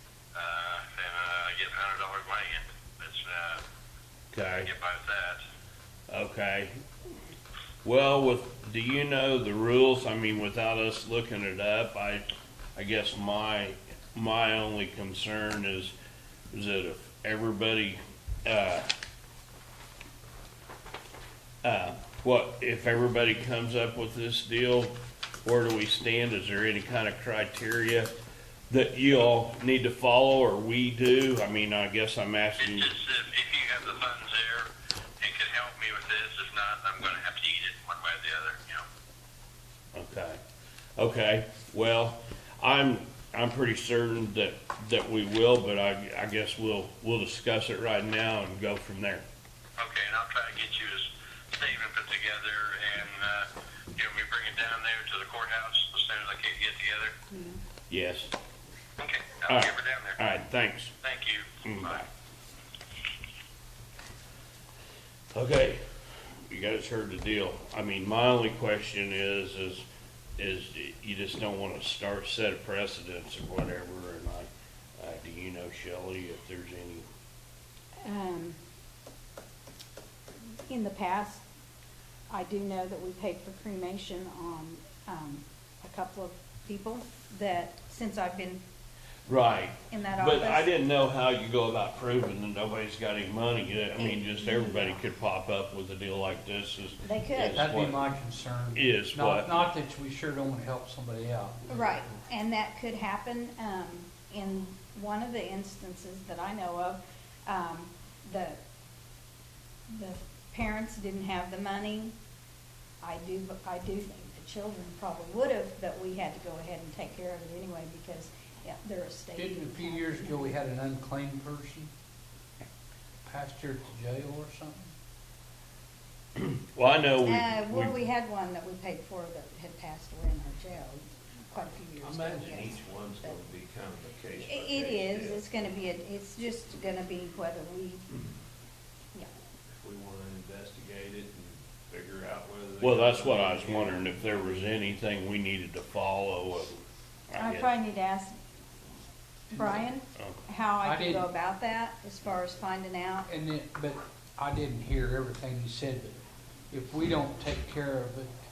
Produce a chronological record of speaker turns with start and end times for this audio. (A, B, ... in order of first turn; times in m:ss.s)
0:00.3-0:03.6 A
0:04.3-0:04.7 B
0:04.6-0:05.4 A
0:06.1-0:06.7 B
0:07.8-0:12.2 B
0:12.8-0:15.9 B
0:16.5-0:18.9 B
0:21.6-0:28.1 B
0:28.7-0:33.0 B
0:32.6-0:34.7 A
0:35.2-0:38.8 A
0:39.9-0:40.4 B
0:41.0-0:49.2 B
0:49.8-0:57.1 A
0:57.3-0:57.6 C
0:57.9-0:58.3 B
0:59.0-1:00.2 A
0:59.5-1:00.9 B
1:01.0-1:02.0 A
1:01.6-1:02.0 B
1:05.3-1:09.8 B
1:10.4-1:17.0 B
1:18.0-1:18.6 C
1:20.7-1:21.4 C
1:22.3-1:28.6 C
1:29.3-1:38.1 B
1:29.9-1:30.7 C
1:34.0-1:35.0 C
1:37.0-1:37.6 C
1:37.5-1:41.8 D
1:38.7-1:39.5 B
1:41.7-1:48.6 C
1:49.9-1:52.1 C
1:53.0-2:00.5 C
1:59.4-2:01.9 D
2:03.2-2:04.8 D
2:06.4-2:08.0 B
2:07.2-2:13.4 C
2:12.0-2:15.4 E
2:14.4-2:18.0 C
2:19.7-2:24.0 E
2:22.8-2:26.8 B
2:27.3-2:27.7 B
2:27.4-2:28.4 C
2:29.5-2:33.3 C
2:30.8-2:31.3 D
2:33.2-2:36.2 D
2:36.7-2:38.3 D